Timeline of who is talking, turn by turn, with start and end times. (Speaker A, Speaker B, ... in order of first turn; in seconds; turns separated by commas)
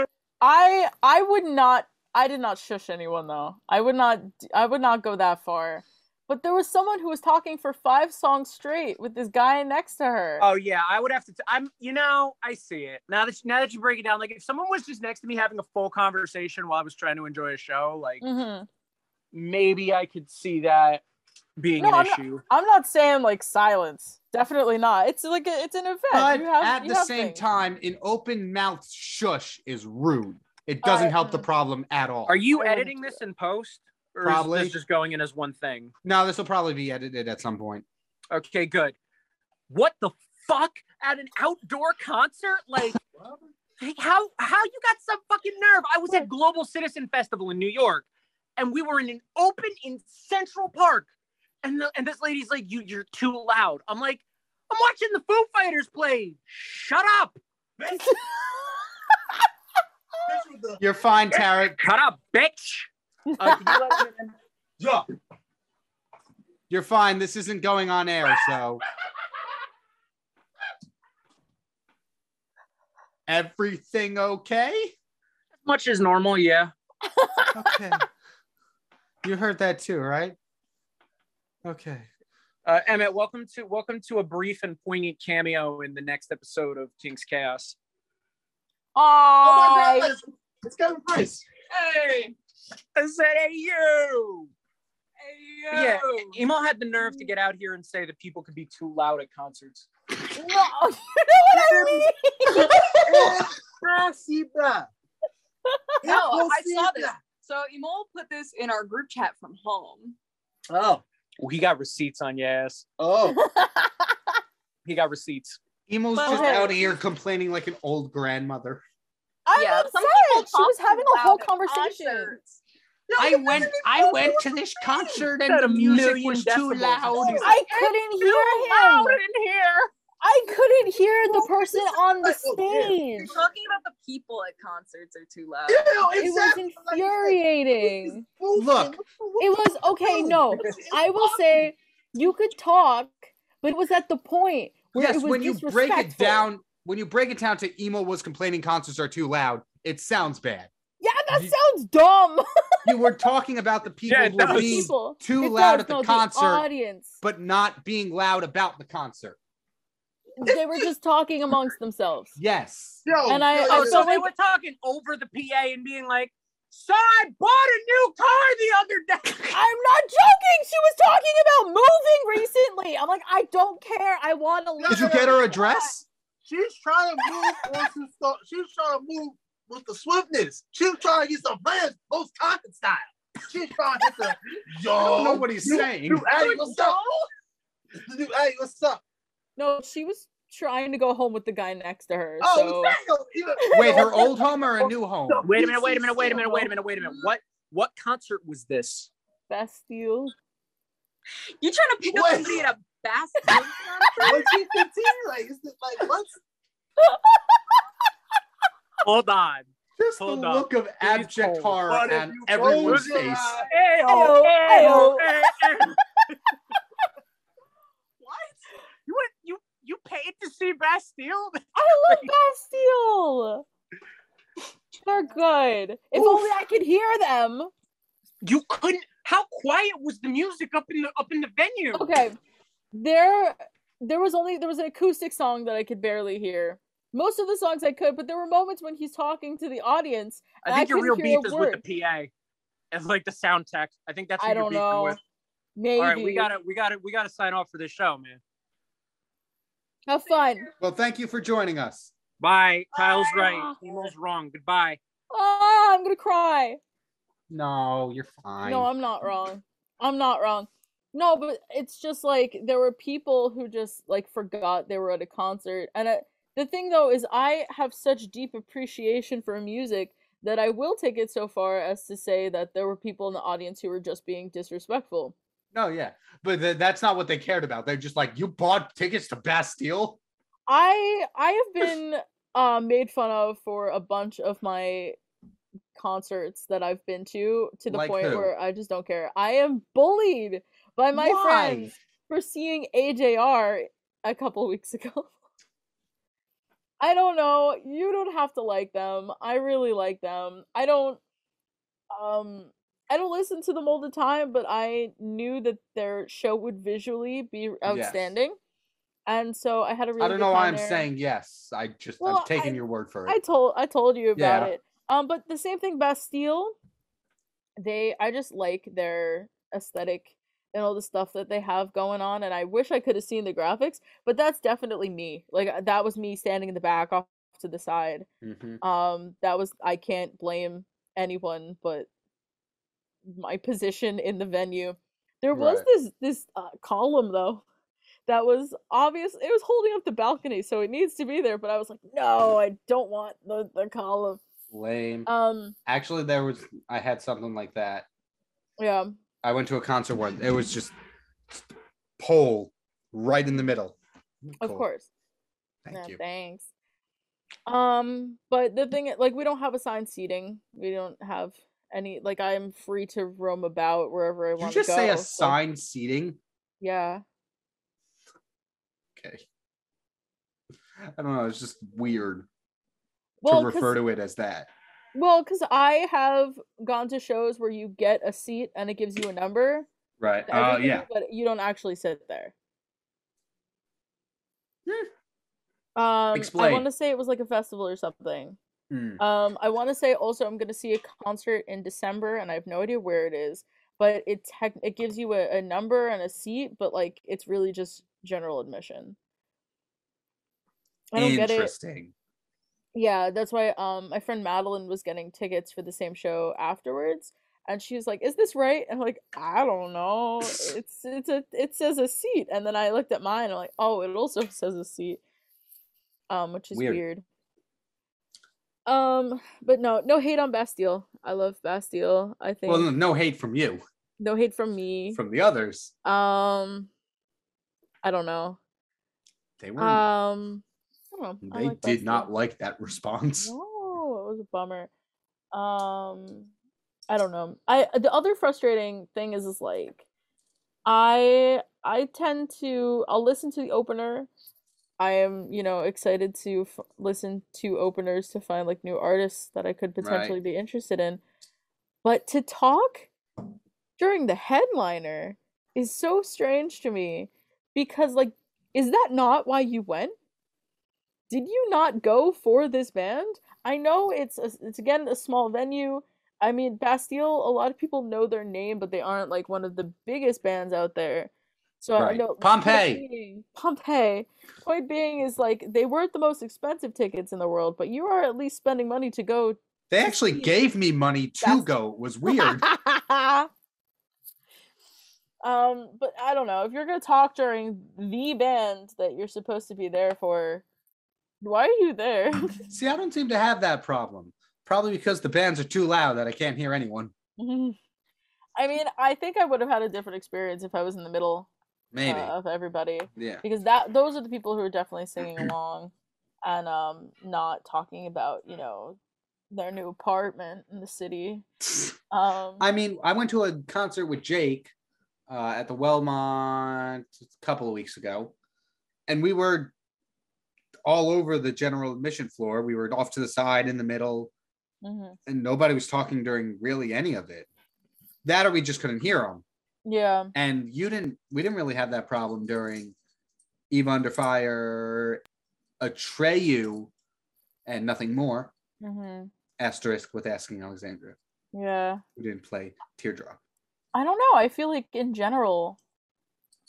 Speaker A: 0.4-10.4, Speaker B: 10.4-18.2, Speaker A: 18.2-18.7, Speaker B: 19.3-21.0, Speaker B: 21.6-22.4, Speaker A: 21.8-27.4, Speaker C: 26.1-32.4, Speaker A: 30.8-31.5, Speaker B: 32.3-35.9, Speaker A: 32.5-33.2, Speaker C: 34.2-34.8, Speaker C: 36.0-37.8, Speaker B: 38.3-39.0, Speaker B: 39.7-43.0, Speaker B: 43.8-48.0, Speaker B: 48.6-51.1, Speaker B: 51.6-57.4, Speaker D: 57.8-58.2, Speaker D: 60.3-60.8, Speaker C: 60.8-61.8, Speaker B: 61.8-62.9, Speaker A: 63.3-63.8, Speaker B: 63.4-64.3, Speaker D: 64.8-65.0, Speaker C: 66.7-68.8, Speaker C: 73.3-74.9, Speaker B: 75.6-76.7, Speaker A: 77.2-77.8, Speaker C: 77.5-78.0, Speaker C: 79.2-80.3, Speaker C: 81.6-82.1, Speaker B: 82.6-87.8, Speaker A: 89.0-90.1, Speaker D: 89.4-91.4, Speaker B: 91.7-92.3, Speaker B: 93.0-94.5, Speaker B: 95.7-99.9, Speaker A: 100.3-103.4, Speaker D: 101.5-104.9, Speaker D: 106.0-107.2, Speaker E: 106.0-110.2, Speaker D: 110.7-111.0, Speaker B: 111.4-112.8, Speaker D: 113.0-113.4, Speaker A: 113.3-114.2, Speaker B: 114.8-115.6, Speaker C: 115.9-118.8, Speaker E: 116.2-116.7, Speaker A: 116.2-116.7, Speaker A: 119.5-122.4, Speaker E: 119.5-122.6, Speaker D: 123.1-125.1, Speaker C: 123.2-127.5, Speaker B: 125.4-129.9, Speaker D: 127.1-127.4, Speaker E: 127.2-127.9, Speaker A: 127.4-129.2, Speaker A: 130.2-133.3, Speaker D: 131.3-133.3, Speaker E: 133.2-136.1, Speaker D: 135.7-141.5, Speaker A: 136.2-138.2, Speaker C: 138.5-139.0, Speaker A: 139.4-146.5, Speaker C: 144.9-150.7, Speaker A: 151.0-153.2, Speaker C: 152.8-156.7, Speaker B: 154.1-154.9, Speaker A: 154.4-157.2, Speaker C: 157.2-159.4, Speaker A: 160.4-162.4, Speaker D: 160.5-160.8, Speaker C: 162.4-163.0, Speaker D: 163.0-164.1, Speaker A: 163.2-164.3, Speaker B: 163.7-169.6, Speaker A: 169.5-175.9, Speaker D: 174.8-175.4, Speaker C: 174.9-176.0, Speaker D: 176.4-187.1, Speaker A: 177.4-177.8, Speaker C: 184.9-186.3, Speaker E: 186.4-186.9, Speaker D: 188.1-189.0, Speaker A: 189.6-193.0, Speaker D: 192.4-196.7, Speaker A: 193.7-194.2, Speaker C: 193.7-195.4, Speaker B: 195.4-199.1, Speaker A: 199.5-200.3, Speaker E: 201.6-204.6, Speaker D: 202.1-202.7, Speaker D: 204.2-206.4, Speaker A: 207.0-207.7, Speaker B: 209.0-216.0, Speaker C: 210.0-213.6, Speaker D: 211.9-213.7, Speaker A: 214.0-215.5, Speaker B: 219.1-222.3, Speaker A: 221.7-223.6, Speaker A: 225.0-227.7, Speaker D: 226.2-226.5, Speaker B: 228.4-232.1, Speaker A: 231.9-232.4, Speaker A: 232.9-241.8, Speaker B: 240.6-242.3, Speaker B: 242.9-245.2, Speaker A: 244.4-245.2, Speaker A: 245.8-246.5, Speaker B: 246.0-248.4, Speaker A: 250.1-250.7, Speaker C: 250.8-252.1, Speaker B: 252.4-255.0, Speaker A: 252.9-253.8, Speaker A: 255.3-256.8, Speaker C: 257.5-258.9, Speaker A: 258.6-275.4, Speaker C: 275.7-280.2, Speaker A: 280.7-285.2, Speaker A: 285.9-295.3, Speaker C: 287.9-288.5, Speaker C: 291.1-291.9, Speaker A: 297.0-301.2, Speaker A: 302.1-308.6, Speaker C: 307.9-308.3, Speaker A: 309.3-311.1, Speaker C: 310.2-313.4, Speaker A: 312.2-316.7, Speaker C: 314.4-314.7, Speaker A: 317.8-328.3, Speaker C: 328.4-328.8, Speaker A: 328.8-332.1, Speaker A: 333.2-337.6, Speaker C: 335.5-335.9, Speaker A: 338.3-344.4, Speaker C: 344.7-345.3, Speaker A: 345.2-345.7, Speaker C: 345.9-348.1, Speaker A: 348.8-349.2, Speaker C: 349.4-350.9, Speaker C: 352.2-354.0, Speaker C: 354.5-354.9, Speaker A: 354.6-355.1, Speaker C: 355.8-356.2, Speaker A: 355.9-356.6, Speaker A: 357.7-365.6, Speaker C: 364.6-366.4, Speaker A: 366.8-367.2, Speaker C: 369.1-369.4, Speaker C: 371.1-372.5, Speaker A: 373.4-374.0, Speaker C: 373.4-374.7, Speaker A: 375.1-379.9, Speaker C: 380.2-381.1, Speaker A: 380.5-382.5, Speaker A: 385.9-388.6, Speaker C: 386.3-386.9, Speaker C: 388.9-389.2, Speaker A: 389.2-399.1, Speaker A: 401.1-401.7, Speaker C: 401.1-402.1, Speaker A: 402.9-415.2, Speaker A: 416.3-417.2, Speaker C: 416.7-417.0, Speaker A: 418.9-422.9, Speaker C: 422.7-423.8, Speaker A: 424.2-425.2, Speaker C: 425.1-425.9, Speaker A: 426.0-426.9, Speaker A: 428.0-428.6, Speaker C: 429.6-430.1, Speaker A: 429.8-432.3, Speaker C: 431.4-433.5, Speaker A: 433.4-434.9, Speaker A: 435.5-436.5, Speaker A: 437.1-440.0, Speaker A: 440.9-444.3, Speaker A: 445.0-451.2, Speaker C: 450.0-450.4, Speaker A: 452.0-453.1, Speaker A: 454.0-460.1, Speaker A: 461.3-480.5, Speaker C: 472.0-473.0, Speaker C: 479.9-482.6, Speaker A: 481.4-481.7, Speaker A: 482.3-483.5, Speaker A: 485.4-490.6, Speaker A: 491.4-492.6, Speaker C: 492.7-497.1, Speaker A: 497.4-497.8, Speaker A: 498.6-501.5, Speaker C: 501.9-502.3, Speaker A: 502.0-505.9, Speaker C: 503.1-503.4, Speaker A: 506.4-509.0, Speaker A: 509.5-511.4, Speaker A: 512.1-512.6, Speaker C: 512.6-514.7, Speaker C: 515.3-518.3, Speaker C: 519.1-519.7, Speaker C: 520.9-524.3, Speaker A: 524.8-525.2, Speaker C: 525.3-527.5, Speaker C: 528.2-529.4, Speaker A: 529.8-530.3, Speaker C: 530.3-532.9, Speaker C: 533.7-535.2, Speaker C: 535.8-536.9, Speaker C: 537.6-538.5, Speaker A: 538.8-539.3, Speaker C: 539.6-541.2, Speaker A: 541.5-542.0, Speaker C: 542.2-543.4, Speaker A: 543.9-545.8